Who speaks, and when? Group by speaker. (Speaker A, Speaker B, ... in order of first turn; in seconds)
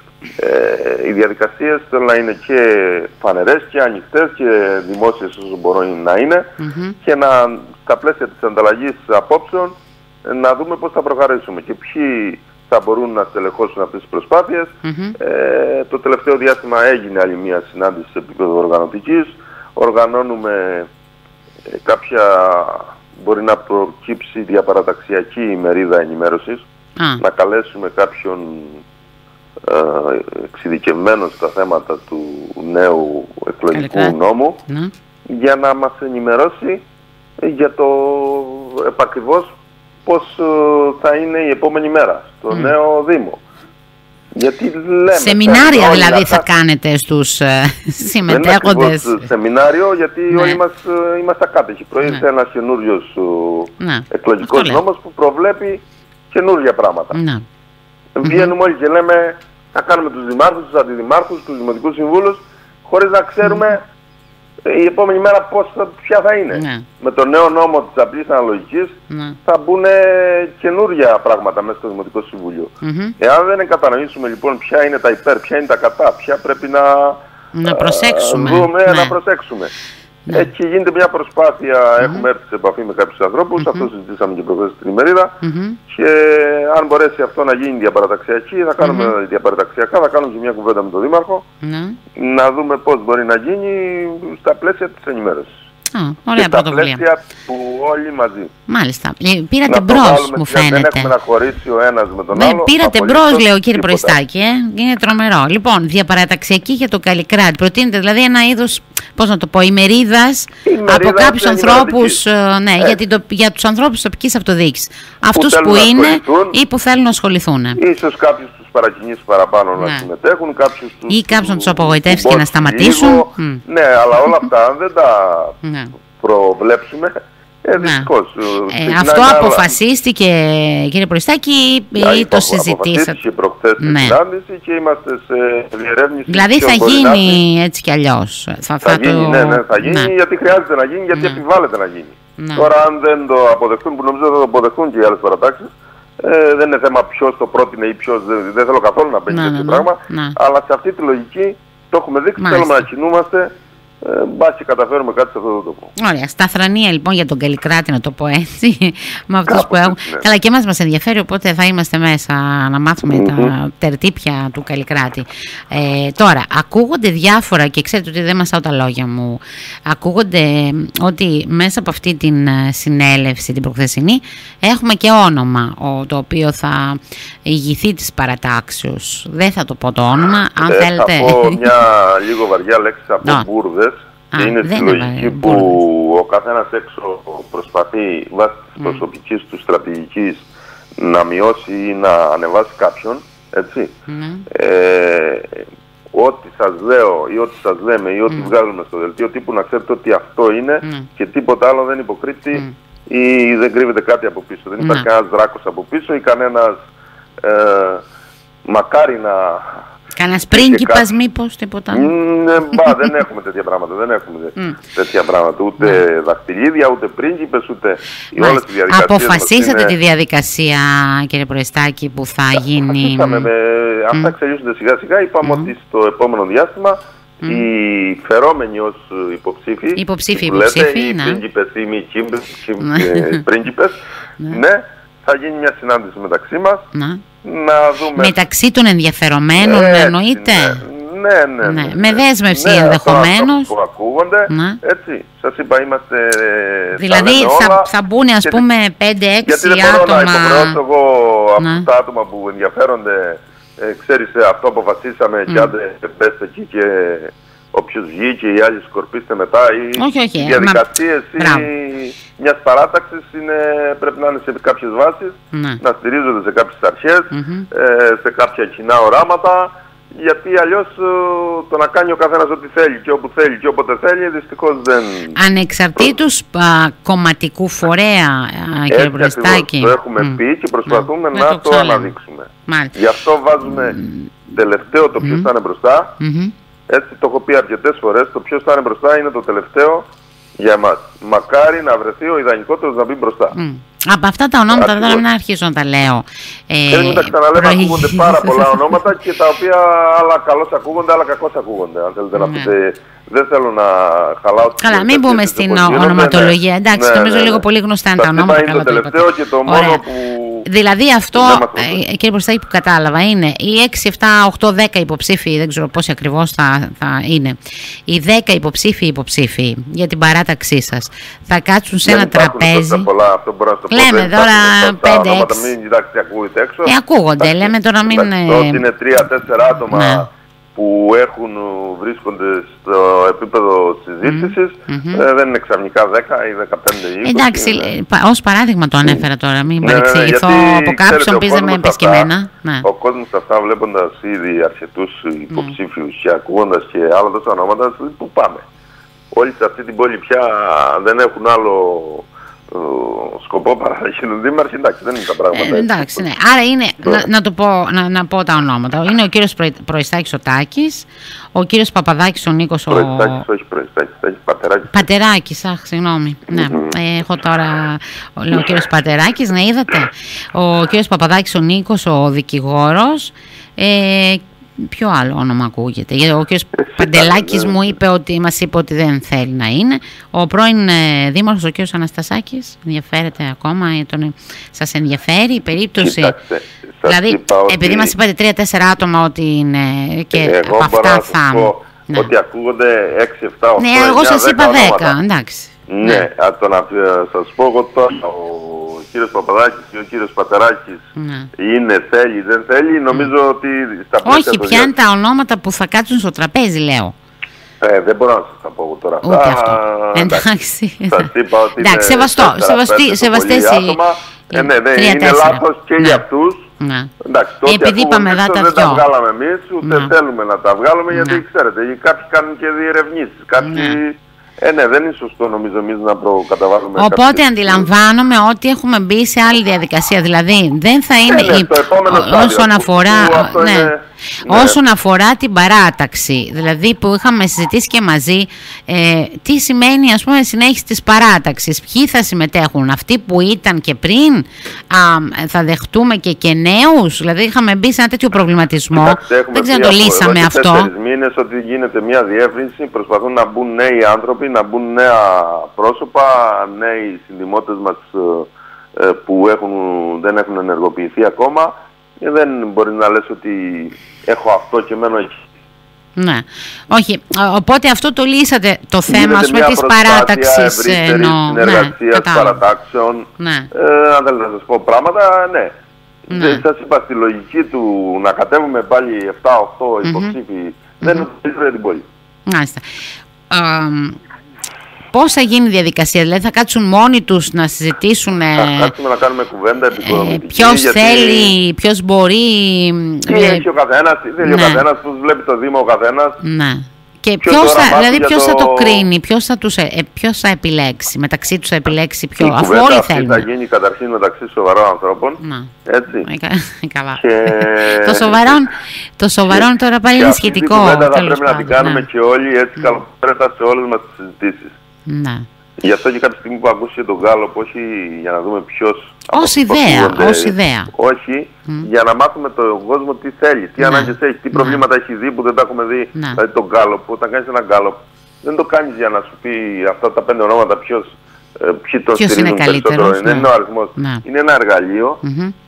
Speaker A: 0.4-6.5, 7.0-20.9, 21.7-26.6, 27.2-28.8, 29.6-34.6, 35.3-36.8, 37.4-39.5, 40.0-43.4, 44.3-46.5, 48.3-57.2, 58.1-63.8, 64.6-79.7, 80.3-91.4, 92.1-95.5, 96.3-98.5, 99.7-104.2, 110.6-112.2, 115.3-116.5, 117.8-125.6, 126.2-129.8, 131.9-137.4, 138.8-153.5, 154.0-155.9, 159.4-160.2, 163.1-163.5, 180.7-190.4, 191.0-193.9, 194.5-206.8, 207.4-208.0, 208.7-209.8, 210.5-211.1, 211.9-219.9, 222.8-236.9, 237.4-238.4, 239.6-247.9, 249.4-275.4, 278.9-286.1, 286.9-290.1, 290.6-293.6, 294.7-295.2, 296.9-307.6, 308.2-310.7, 311.3-312.0, 322.1-337.9, 339.8-342.3, 342.8-348.6, 349.3-356.3, 362.9-365.0, 366.5-366.9, 376.8-377.9, 386.0-388.1, 390.3-395.2, 395.9-404.9, 407.8-410.4, 411.1-416.7, 417.2-427.9, 431.3-434.8, 448.9-465.4, 469.1-475.7, 476.3-482.0, 488.5-491.5, 493.3-496.4, 497.4-499.1, 502.4-506.3, 507.2-508.6, 509.5-514.7, 515.8-535.2
Speaker B: 6.6-7.0, 14.8-15.2, 33.7-34.1, 45.1-49.3, 50.3-50.6, 53.8-54.8, 57.1-57.4, 58.2-58.5, 63.4-63.7, 66.5-66.8, 69.1-69.4, 72.8-73.1, 77.5-79.1, 83.6-83.9, 85.4-85.8, 88.8-89.1, 91.6-92.0, 95.9-97.0, 98.7-101.1, 102.3-117.8, 119.8-120.0, 121.1-123.6, 125.6-125.9, 127.8-128.1, 128.7-133.2, 133.8-134.2, 136.3-140.1, 142.4-142.7, 149.3-150.3, 152.4-152.8, 155.9-181.7, 184.3-185.8, 194.1-194.4, 204.8-205.1, 210.2-212.1, 218.3-223.5, 225.4-225.7, 229.9-231.4, 232.8-233.4, 236.9-237.2, 238.1-240.8, 241.6-243.7, 244.5-244.8, 246.9-250.8, 251.6-251.9, 255.5-255.7, 259.9-260.9, 261.4-261.7, 265.5-265.8, 267.3-267.7, 275.3-282.1, 282.6-283.0, 284.0-284.3, 285.2-285.5, 286.2-286.5, 293.5-299.0, 302.4-302.7, 304.8-310.0, 310.6-323.1, 323.9-325.7, 326.8-328.8, 329.9-330.2, 334.2-335.2, 337.2-342.9, 345.5-345.8, 355.5-363.4, 364.9-386.3, 387.1-392.3, 393.8-396.2, 401.1-401.5, 404.2-407.1, 409.2-414.0, 414.5-416.2, 416.8-417.1, 417.6-419.0, 419.8-420.1, 421.1-421.4, 423.6-424.0, 426.9-450.9, 466.2-472.6, 473.4-473.7, 476.3-476.6, 480.0-480.3, 482.5-482.9, 483.5-484.2, 485.1-488.9, 490.0-493.6, 494.4-494.8, 496.4-503.4, 505.4-505.7, 506.2-512.0, 515.1-515.5, 519.3-520.9, 523.8-524.8, 526.1-526.4, 532.1-534.2, 535.2-535.5